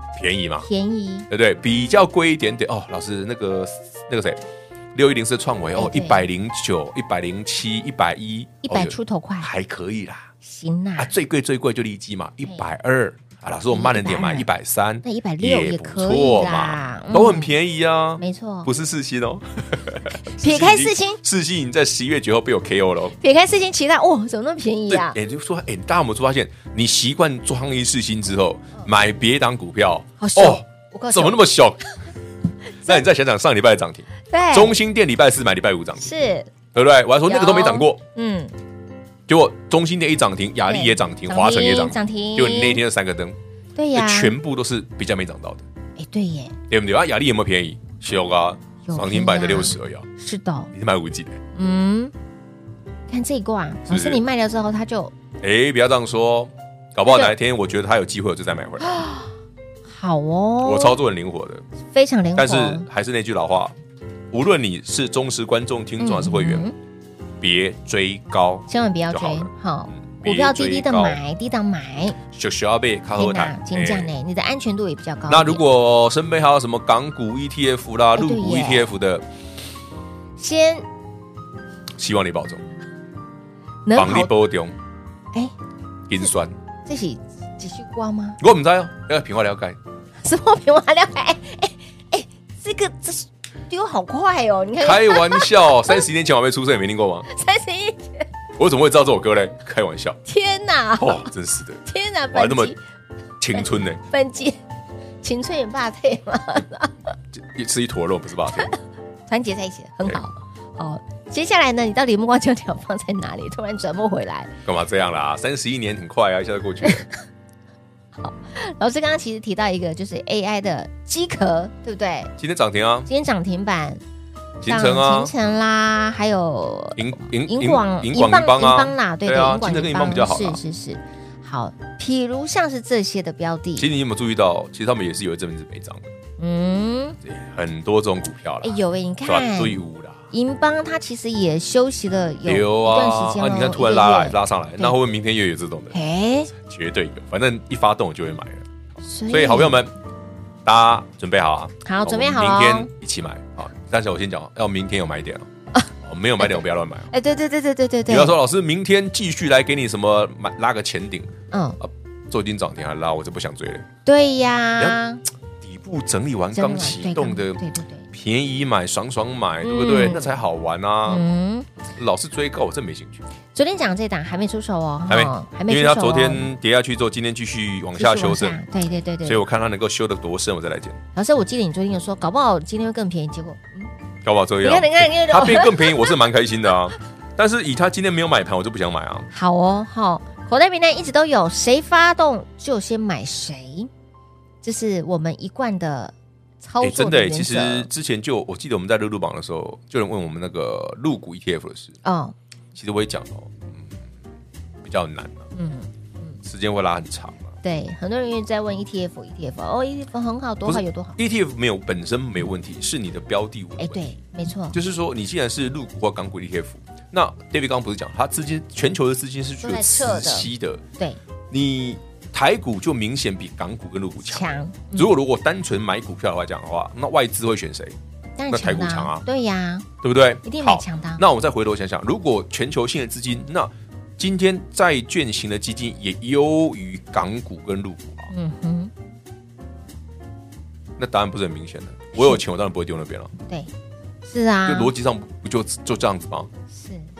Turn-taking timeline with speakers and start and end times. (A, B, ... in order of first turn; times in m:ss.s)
0:00.2-0:00.7 A
0:00.6-0:01.3 B
0:01.3-0:04.4 A
0:04.9-0:10.3 A
0:05.8-0:06.2 B
0:08.6-0:09.5 B
0:10.4-0:11.1 B
0:11.0-0:23.2 A
0:13.7-0:14.5 B
0:15.0-0:17.5 B
0:18.2-0:18.7 B
0:20.3-0:21.2 B
0:23.2-0:25.2 B
0:24.9-0:31.8 A
0:30.2-0:31.4 B
0:32.8-0:36.1 A
0:34.3-0:34.8 B
0:36.0-0:36.5 B
0:36.7-0:38.0 A
0:37.3-0:38.5 B
0:39.3-0:43.4 A
0:40.7-0:42.8 B
0:43.8-0:44.3 B
0:43.9-0:45.6 A
0:46.0-0:46.5 B
0:46.7-0:50.1 A
0:48.8-0:50.7 B
0:50.7-0:51.4 A
0:51.6-0:52.1 B
0:53.1-0:55.1 B
0:53.9-0:54.2 A
0:55.4-0:59.0 A
0:57.1-0:57.3 B
0:58.8-0:59.3 B
0:59.9-1:01.0 B
1:00.6-1:01.6 A
1:01.9-1:02.8 B
1:02.4-1:03.8 A
1:04.3-1:06.7 A
1:06.0-1:06.8 B
1:07.4-1:11.2 A
1:08.7-1:12.2 B
1:12.3-1:14.1 A
1:13.2-1:15.6 B
1:15.3-1:19.2 A
1:18.2-1:18.9 B
1:20.4-1:20.8 B
1:22.0-1:22.6 A
1:23.8-1:24.3 B
1:24.0-1:24.8 A
1:26.1-1:26.5 A
1:26.8-1:28.4 B
1:28.4-1:29.8 A
1:30.2-1:36.0 B
1:34.8-1:37.2 A
1:37.3-1:38.3 B
1:38.6-1:40.2 A
1:40.3-1:41.3 B
1:41.0-1:42.7 A
1:41.8-1:42.8 B
1:43.4-1:44.0 A
1:43.5-1:44.6 B
1:45.2-1:47.0 B
1:47.3-1:48.7 A
1:49.3-1:54.5 B
1:54.6-1:57.0 A
1:58.2-2:02.3 B
2:02.4-2:03.1 A
2:03.1-2:04.0 B
2:04.6-2:05.3 A
2:04.6-2:13.9 B
2:07.0-2:10.6 A
2:13.8-2:16.1 A
2:16.4-2:17.2 B
2:17.2-2:20.2 A
2:18.6-2:19.8 B
2:20.3-2:25.0 B
2:22.5-2:26.0 A
2:25.9-2:26.5 B
2:26.5-2:28.6 A
2:29.0-2:29.8 B
2:29.3-2:29.9 A
2:30.6-2:35.5 A
2:31.8-2:32.9 B
2:36.0-2:37.1 A
2:36.4-2:38.3 B
2:38.1-2:43.8 A
2:41.5-2:41.8 B
2:44.0-2:45.2 B
2:45.6-2:47.6 A
2:46.5-2:48.0 B
2:48.1-2:51.2 A
2:49.6-2:50.3 B
2:51.1-2:51.7 B
2:52.0-2:53.2 A
2:53.5-2:56.5 B
2:55.1-2:58.6 A
2:58.0-2:59.4 B
2:59.2-3:01.0 A
3:01.2-3:03.9 B
3:04.2-3:09.3 A
3:04.6-3:06.1 B
3:09.3-3:13.9 B
3:14.6-3:17.9 B
3:16.8-3:22.0 A
3:22.0-3:22.3 B
3:22.8-3:24.0 A
3:24.8-3:25.5 A
3:25.5-3:26.4 B
3:26.4-3:27.5 A
3:27.6-3:31.2 B
3:30.6-3:34.0 A
3:33.8-3:34.8 B
3:34.7-3:40.8 A
3:39.6-3:41.2 B
3:41.5-3:48.0 A
3:44.2-3:45.1 B
3:48.4-3:49.9 B
3:48.5-3:49.2 A
3:50.0-3:58.3 A
3:50.4-3:51.2 B
3:58.3-3:58.9 B
4:01.0-4:03.3 A
4:02.2-4:02.4 B
4:04.2-4:04.9 B
4:04.6-4:06.5 A
4:06.7-4:07.1 B